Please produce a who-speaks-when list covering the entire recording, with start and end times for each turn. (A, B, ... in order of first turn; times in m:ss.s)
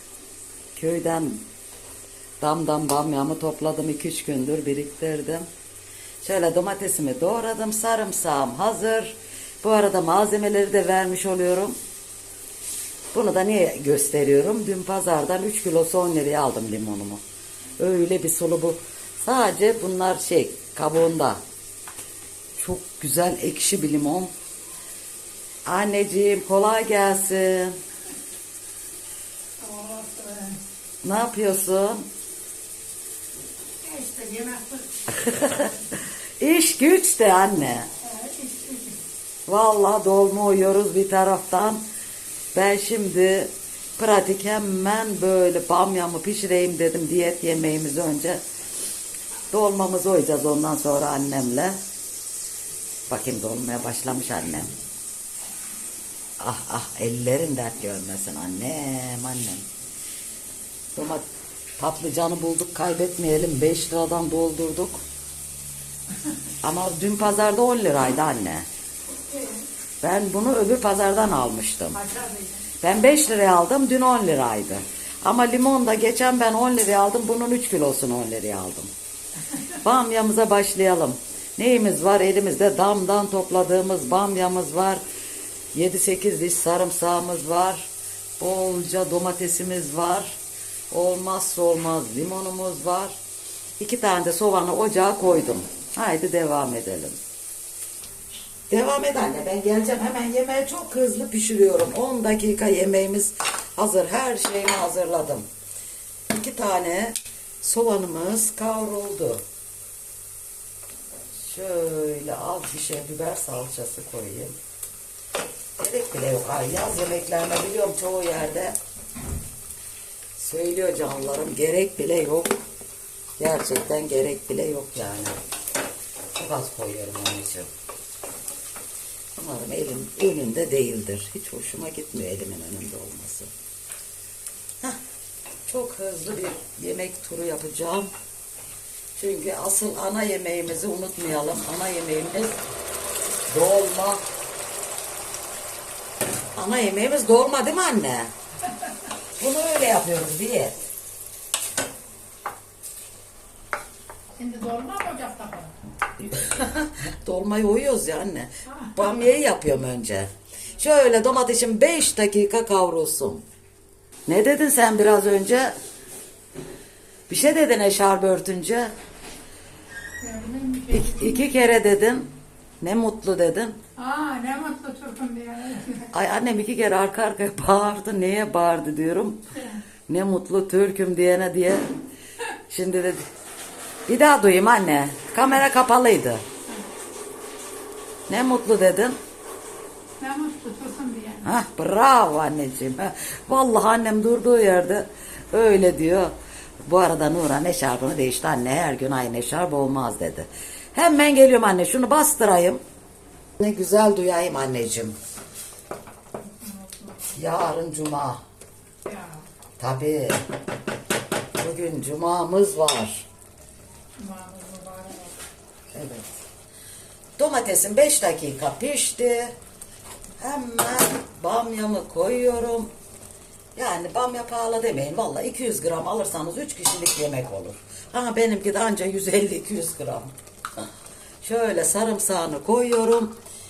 0:00.7-0:01.4 A
0:02.4-0:05.5 A
0:06.2-0:11.8 A
0:13.1-0:17.2 A
0:17.8-0:21.4 A
0:22.6-0:24.3 A
0:25.6-0:27.8 A
0:29.6-0:30.6 B
0:31.0-0:32.0 A
0:33.8-0:34.9 B
0:35.1-0:37.9 A
0:38.0-0:39.0 B
0:39.5-0:41.8 A
0:42.5-0:48.4 A
0:49.5-0:51.8 A
0:53.1-0:54.7 A
0:56.4-0:59.6 A
1:01.0-1:01.2 A
1:01.8-1:05.0 A
1:06.6-1:08.7 A
1:09.3-1:09.6 B
1:10.0-1:12.0 A
1:11.9-1:12.7 B
1:12.8-1:18.9 A
1:19.8-1:25.0 A
1:25.7-1:30.4 A
1:30.9-1:33.1 A
1:33.8-1:37.2 A
1:38.7-1:45.5 A
1:46.3-1:49.4 A
1:51.3-1:54.6 A
1:55.8-1:58.8 A
2:00.4-2:02.6 A
2:03.4-2:05.4 A
2:06.4-2:07.7 A
2:09.4-2:13.5 A
2:15.7-2:18.1 A
2:19.1-2:22.6 A
2:23.5-2:24.2 A
2:26.5-2:28.3 A
2:29.4-2:30.8 A
2:34.4-2:35.8 B
2:36.2-2:43.4 A
2:44.3-2:45.8 A
2:47.3-2:48.9 A
2:50.2-2:51.5 B
2:50.9-2:52.3 A
2:52.8-2:53.8 A
2:54.0-2:56.1 B
2:56.1-2:59.4 A
3:00.1-3:01.9 A
3:02.7-3:03.2 A
3:04.1-3:06.4 A
3:08.3-3:09.2 A
3:10.2-3:11.5 B
3:11.4-3:22.8 A
3:23.6-3:25.2 A
3:26.4-3:27.4 B
3:27.3-3:28.4 A
3:29.0-3:29.4 B
3:29.8-3:30.4 A
3:31.6-3:33.3 A
3:34.2-3:35.4 B
3:35.9-3:36.3 A
3:37.4-3:39.5 A
3:40.4-3:42.9 A
3:43.8-3:50.3 A
3:51.4-3:53.3 A